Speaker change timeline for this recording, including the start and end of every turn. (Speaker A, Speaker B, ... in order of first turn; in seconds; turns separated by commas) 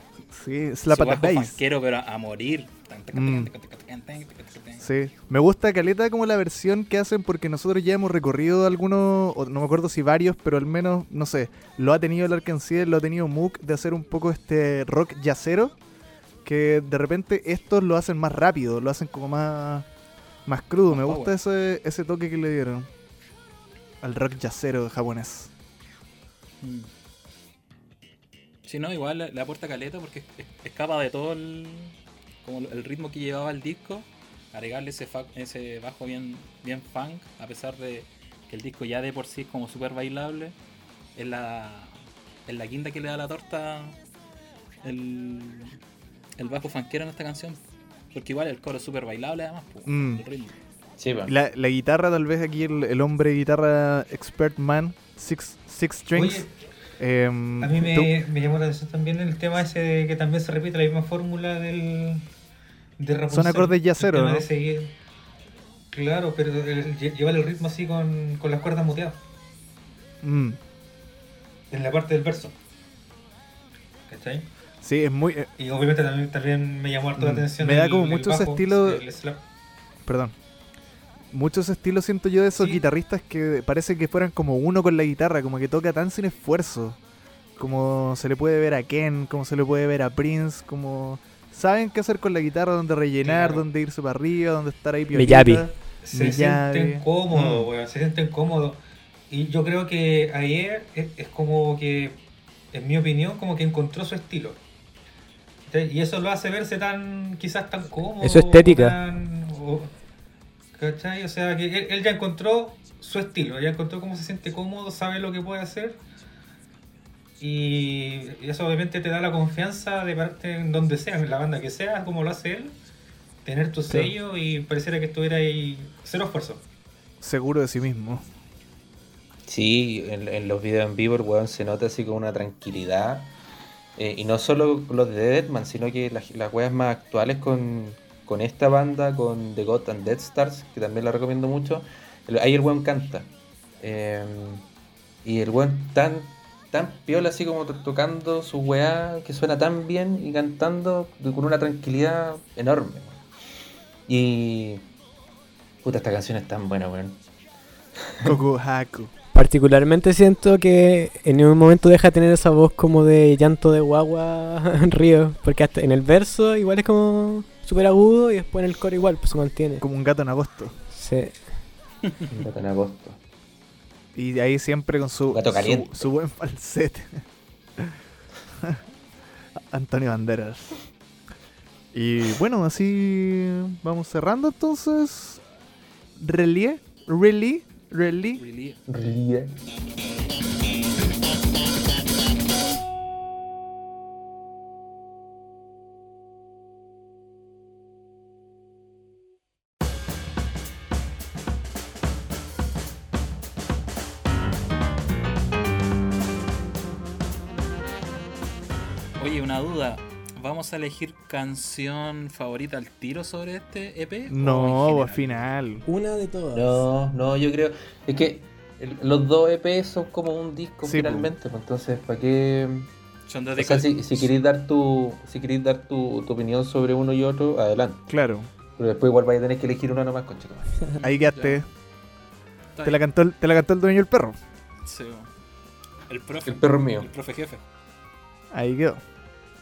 Speaker A: 0.3-1.6, Speaker B: 0.9-4.8, Speaker A: 3.1-3.5, Speaker A: 4.8-15.8, Speaker A: 16.4-19.9, Speaker A: 20.4-22.9, Speaker B: 20.9-21.3, Speaker A: 24.0-25.5, Speaker B: 26.6-26.9, Speaker B: 28.6-40.5, Speaker B: 41.1-44.0, Speaker B: 44.8-45.8, Speaker B: 46.4-47.6, Speaker B: 48.1-50.5, Speaker A: 49.8-50.2, Speaker C: 51.0-51.3, Speaker A: 51.2-56.5, Speaker D: 56.1-56.5, Speaker A: 57.0-58.1, Speaker D: 57.6-62.2, Speaker D: 63.0-64.9, Speaker A: 63.3-64.5, Speaker D: 65.9-69.2, Speaker A: 70.2-70.6, Speaker D: 71.7-72.5, Speaker D: 74.1-74.5, Speaker A: 74.8-75.5, Speaker D: 75.6-79.4, Speaker A: 77.2-79.0, Speaker A: 80.0-80.3, Speaker A: 81.3-87.0, Speaker D: 82.6-82.8, Speaker A: 87.6-97.7, Speaker B: 93.2-93.6, Speaker E: 95.1-95.7, Speaker D: 96.0-102.2, Speaker D: 102.7-104.6, Speaker D: 105.7-109.9, Speaker E: 108.2-109.0, Speaker D: 110.8-116.0, Speaker D: 117.4-122.8, Speaker D: 123.4-126.6, Speaker A: 123.9-124.1, Speaker A: 127.2-128.2, Speaker C: 129.5-133.3, Speaker C: 133.9-144.7, Speaker C: 145.2-153.2, Speaker C: 154.1-154.8, Speaker C: 155.8-157.2, Speaker C: 158.0-158.3, Speaker A: 158.2-159.1, Speaker E: 159.3-169.8, Speaker A: 169.8-170.7, Speaker E: 170.9-171.3, Speaker C: 172.3-173.2, Speaker A: 174.1-177.2, Speaker C: 175.3-176.1, Speaker A: 179.7-180.8, Speaker A: 181.9-185.4, Speaker A: 186.2-188.4, Speaker B: 188.3-188.8, Speaker C: 188.9-189.6, Speaker B: 209.2-215.4, Speaker A: 214.3-215.8, Speaker E: 215.8-216.8, Speaker C: 216.5-222.9, Speaker A: 220.8-221.3, Speaker B: 223.3-224.4, Speaker C: 223.6-228.0, Speaker A: 228.1-228.5, Speaker C: 228.8-231.0, Speaker A: 231.0-231.7, Speaker B: 231.1-231.6, Speaker B: 232.8-233.0, Speaker A: 232.8-234.4, Speaker B: 234.8-235.3, Speaker B: 236.1-237.6, Speaker C: 236.4-237.1, Speaker A: 238.5-239.0